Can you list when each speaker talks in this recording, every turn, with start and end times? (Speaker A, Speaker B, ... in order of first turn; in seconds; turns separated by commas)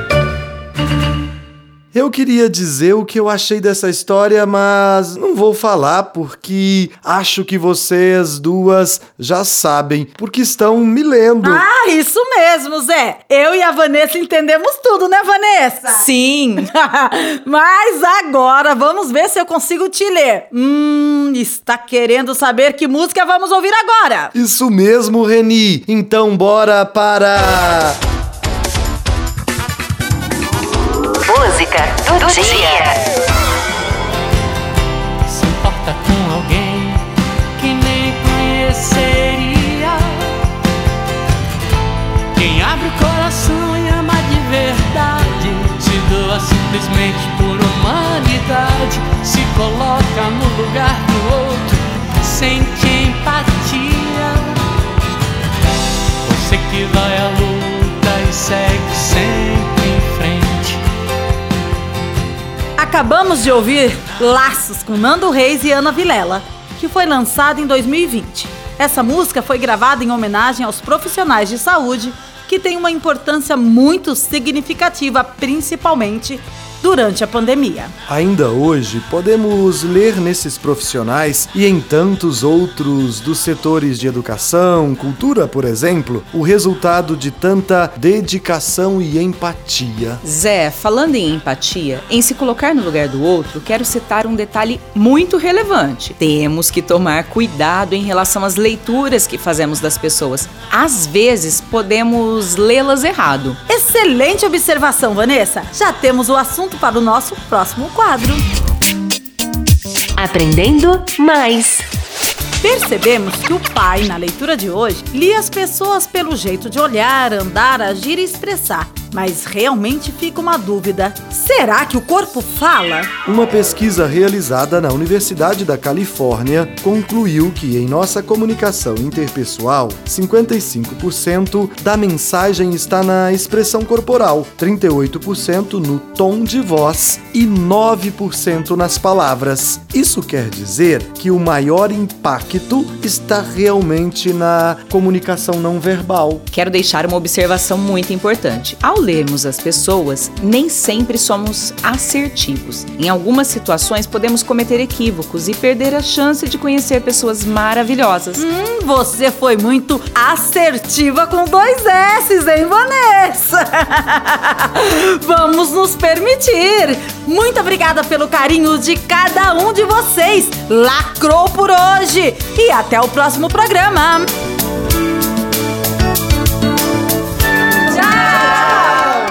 Speaker A: 1.9-11.6, Speaker B: 11.4-24.3, Speaker A: 24.4-28.0, Speaker C: 31.2-33.0, Speaker D: 35.3-37.0, Speaker D: 37.6-40.4, Speaker D: 42.3-54.6, Speaker D: 56.2-60.8, Speaker B: 62.8-78.0, Speaker A: 78.1-90.2, Speaker E: 90.2-103.6, Speaker B: 103.7-108.4, Speaker C: 110.2-111.8, Speaker B: 112.6-123.1, Speaker A: 123.2-146.4, Speaker E: 146.5-158.4, Speaker B: 158.4-174.3, Speaker B: 177.9-179.1